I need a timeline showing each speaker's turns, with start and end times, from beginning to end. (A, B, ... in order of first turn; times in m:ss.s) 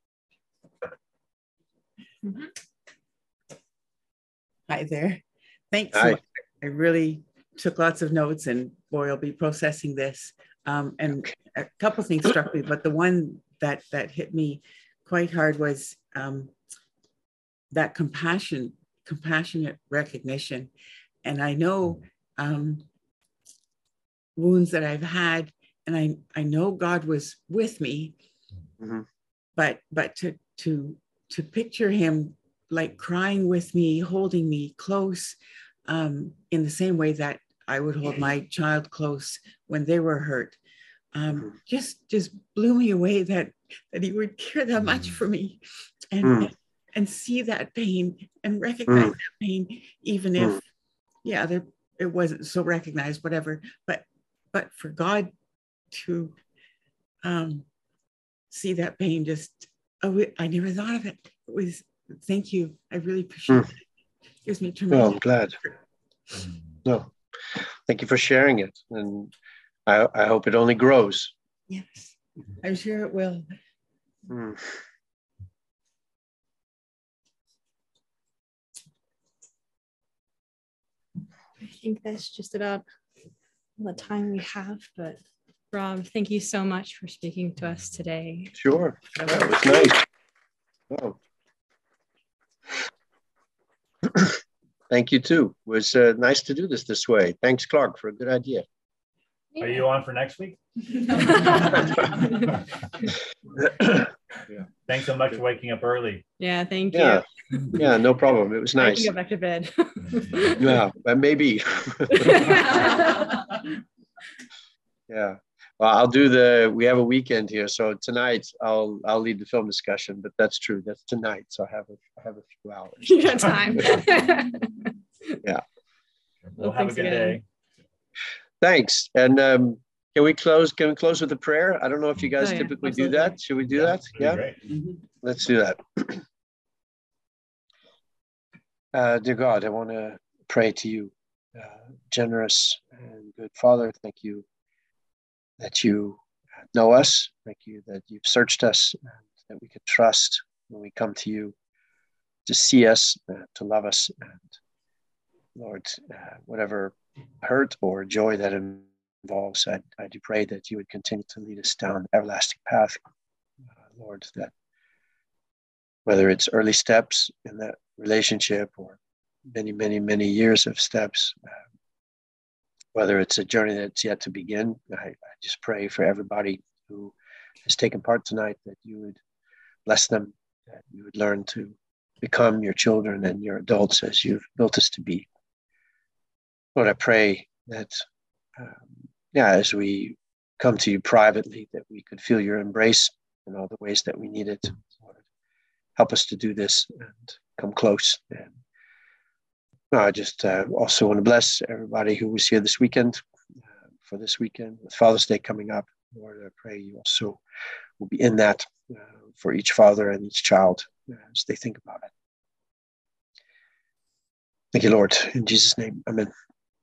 0:04.7-0:16.5 A
0:17.7-0:20.7 A
0:21.2-0:22.8 A
0:24.4-0:28.2 A
0:29.6-0:40.6 A
0:41.1-0:50.6 A
0:46.2-0:46.5 B
0:48.9-0:49.1 B
0:51.2-0:55.3 A
0:55.9-0:56.4 A
0:57.2-0:57.6 A
0:58.5-1:03.8 A
1:04.4-1:05.7 A
1:04.9-1:05.6 B
1:07.9-1:09.3 B
1:09.9-1:11.3 B
1:11.7-1:13.5 A
1:14.3-1:14.6 B
1:21.6-1:22.8 C
1:23.8-1:25.2 C
1:25.7-1:28.5 C
1:28.6-1:30.0 B
1:30.9-1:31.2 B
1:34.9-1:38.6 B
1:39.6-1:42.4 D
1:44.9-1:46.2 D
1:46.4-1:47.2 C
1:46.9-1:49.1 B
1:48.8-1:50.7 C
1:50.6-1:52.4 B
1:52.2-1:53.5 C
1:55.1-2:03.3 B
2:03.1-2:04.7 C
2:06.4-2:07.4 D
2:06.6-2:07.4 C
2:08.6-2:14.4 B
2:12.4-2:13.4 C
2:13.8-2:14.6 D
2:15.2-2:16.2 B
2:18.9-2:24.4 B
2:25.6-2:26.2 B
2:26.7-2:31.5 B
2:32.5-2:34.5 B
2:35.6-2:43.0 B
2:44.0-2:44.5 B
2:46.1-2:49.0 B
2:49.5-2:51.4 B
2:53.0-2:57.1 B
2:57.7-2:59.2 B
2:59.9-3:05.3 B
3:06.8-3:08.0 B
3:08.6-3:15.2 B
3:16.0-3:18.5 B
3:19.9-3:23.2 B
3:24.1-3:27.4 B
3:28.0-3:32.1 B
3:34.7-3:36.3 B